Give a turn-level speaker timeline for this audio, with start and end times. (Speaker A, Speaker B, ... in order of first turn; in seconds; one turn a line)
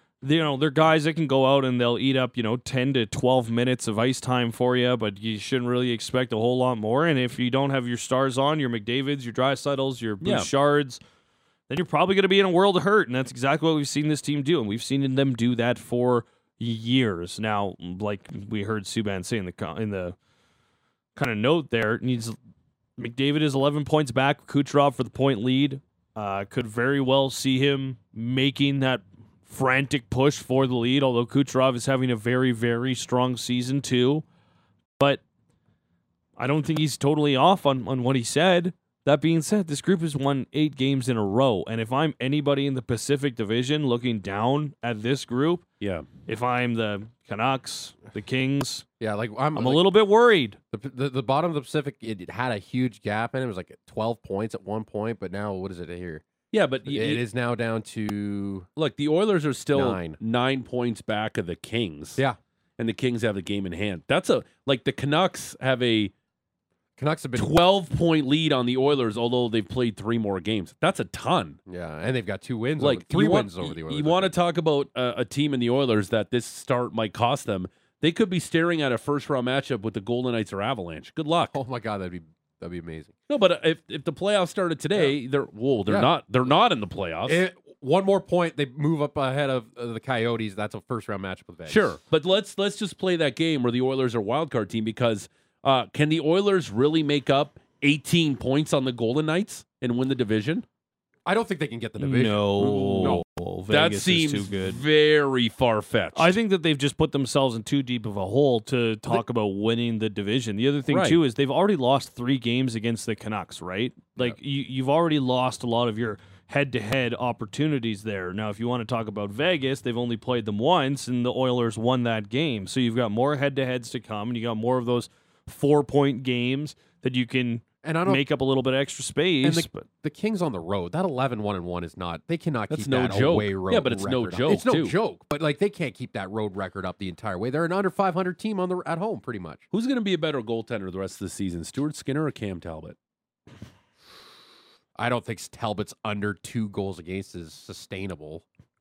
Speaker A: 0.2-11.0
Speaker B: 10.2-10.5
Speaker A: 11.7-20.1
Speaker A: 21.1-22.4
Speaker A: 23.0-34.2
Speaker A: 36.4-45.6
Speaker B: 45.8-46.1
Speaker A: 46.3-48.8
Speaker C: 49.0-49.9
Speaker A: 49.5-50.6
Speaker C: 50.7-56.2
Speaker B: 56.5-57.2
Speaker C: 56.9-58.7
Speaker B: 58.8-62.2
Speaker C: 59.7-60.2
Speaker B: 62.8-66.1
Speaker C: 67.0-67.6
Speaker B: 67.3-71.6
Speaker C: 71.7-74.3
Speaker B: 72.8-81.5
Speaker C: 81.5-83.1
Speaker B: 83.3-87.4
Speaker C: 85.9-86.1
Speaker C: 87.2-92.0
Speaker B: 91.7-100.7
Speaker C: 101.2-103.2
Speaker A: 102.0-104.8
Speaker B: 102.6-106.3
Speaker A: 106.1-129.8
Speaker B: 110.9-111.2
Speaker C: 127.8-128.2
Speaker C: 129.4-139.6
Speaker B: 132.7-134.9
Speaker B: 139.7-142.9
Speaker C: 144.9-148.4